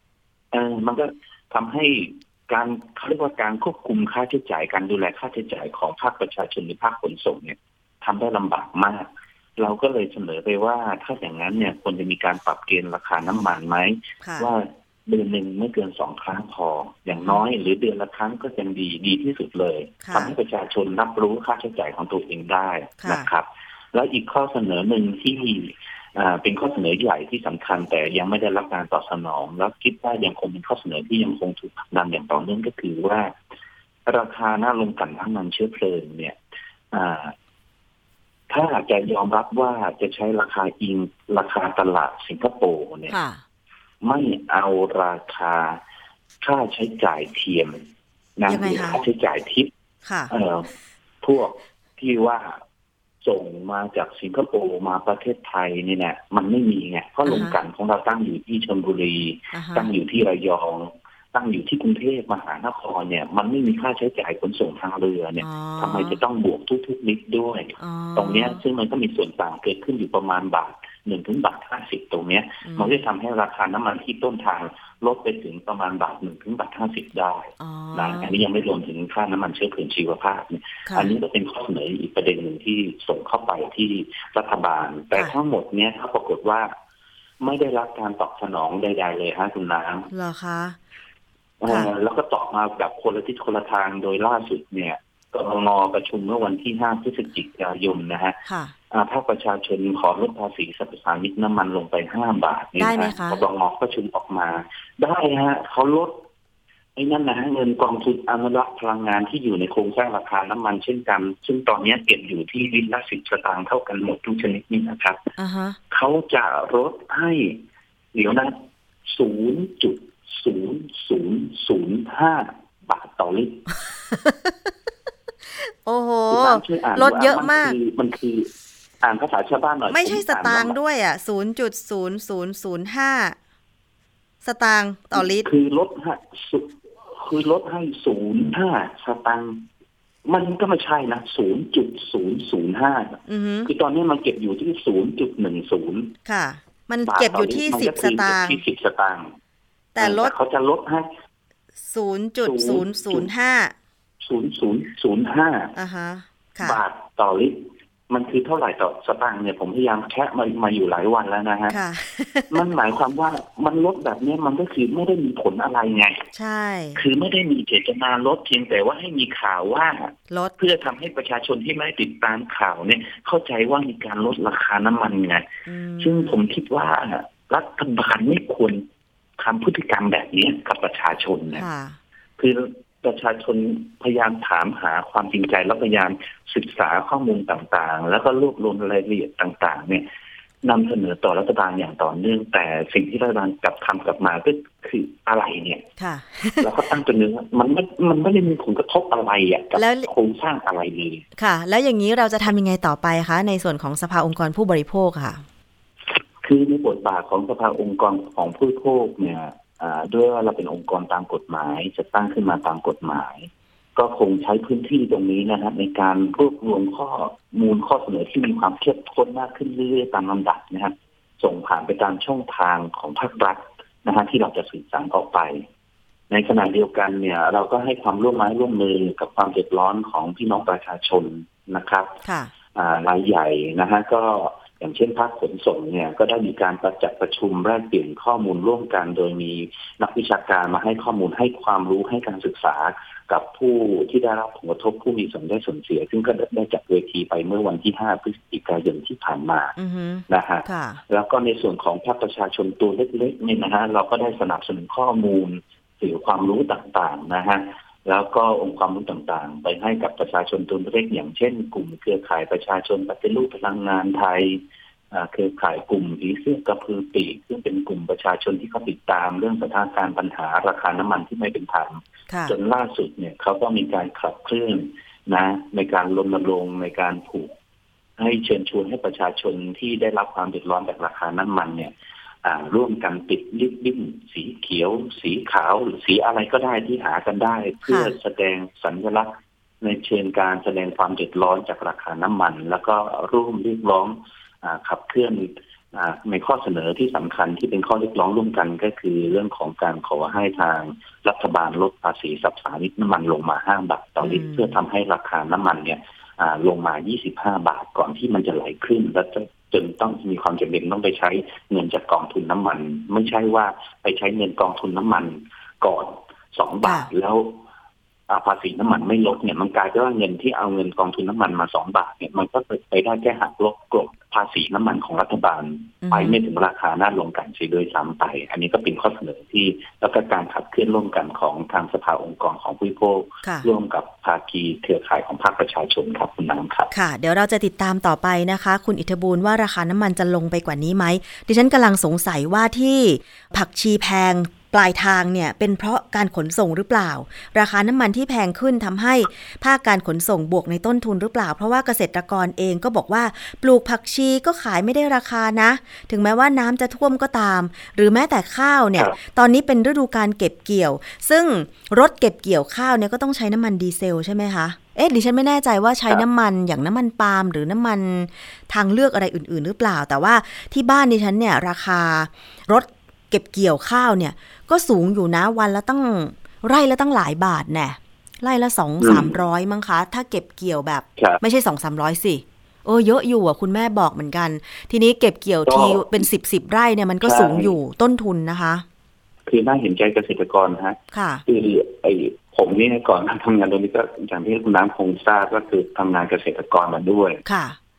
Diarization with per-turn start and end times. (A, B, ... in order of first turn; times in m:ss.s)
0:00.5-0:33.3 A
0:14.2-0:14.5 B
0:20.0-0:20.4 B
0:23.0-0:23.3 B
0:34.1-0:36.4 A
0:36.9-0:37.4 A
0:38.5-0:43.2 A
0:43.1-0:43.4 B
0:44.0-0:45.8 A
0:46.4-0:47.9 A
0:48.4-0:49.7 A
0:48.5-0:49.0 B
0:50.0-0:50.3 B
0:50.3-0:50.7 A
0:51.2-0:52.6 A
0:53.2-1:26.7 A
0:57.3-0:57.6 B
0:59.5-0:59.9 B
1:05.4-1:06.2 B
1:07.8-1:08.6 B
1:12.6-1:13.0 B
1:17.6-1:18.4 B
1:20.9-1:21.1 B
1:27.4-1:30.1 A
1:30.1-1:30.8 B
1:31.6-1:38.4 A
1:38.5-1:38.7 B
1:38.9-1:46.2 A
1:42.8-1:43.4 B
1:47.0-1:55.3 A
1:55.4-1:55.8 B
1:55.9-1:57.6 A
1:58.1-2:03.7 A
2:04.1-2:04.5 B
2:05.5-2:07.8 B
2:06.3-2:08.5 A
2:09.0-2:10.8 A
2:09.9-2:13.4 B
2:14.4-2:15.5 B
2:15.1-2:19.7 A
2:20.3-2:26.2 A
2:23.3-2:23.7 B
2:26.3-2:28.6 B
2:27.1-2:29.4 A
2:30.0-2:30.3 B
2:30.0-2:31.1 A
2:31.9-2:33.7 B
2:32.4-2:33.3 A
2:34.2-2:35.8 A
2:35.8-2:36.8 B
2:36.6-2:41.8 A
2:41.7-2:42.6 B
2:42.5-2:46.3 A
2:46.3-2:47.0 B
2:47.0-2:55.5 A
2:50.3-2:50.6 B
2:55.7-2:56.4 B
2:56.0-2:58.8 A
2:59.4-3:01.7 A
3:01.6-3:02.0 B
3:02.4-3:10.1 A
3:10.6-3:15.8 A
3:16.0-3:16.7 B
3:16.6-3:21.3 A
3:19.8-3:20.1 B
3:21.4-3:25.4 B
3:26.2-3:45.7 A
3:46.3-3:52.2 A
3:52.2-3:52.5 B
3:52.7-4:09.8 A
4:09.8-4:11.0 B
4:10.3-4:37.6 A
4:32.3-4:32.6 B
4:38.2-4:41.9 A
4:42.4-5:17.6 A
4:47.9-4:48.1 B
5:04.2-5:04.8 B
5:18.3-5:36.9 A
5:26.0-5:26.4 B
5:33.4-5:33.7 B
5:36.9-6:28.8 B
6:19.0-6:19.4 A
6:25.7-6:26.2 A
6:27.2-6:27.8 A
6:29.5-6:37.4 A
6:31.1-6:31.4 B
6:37.4-6:37.8 B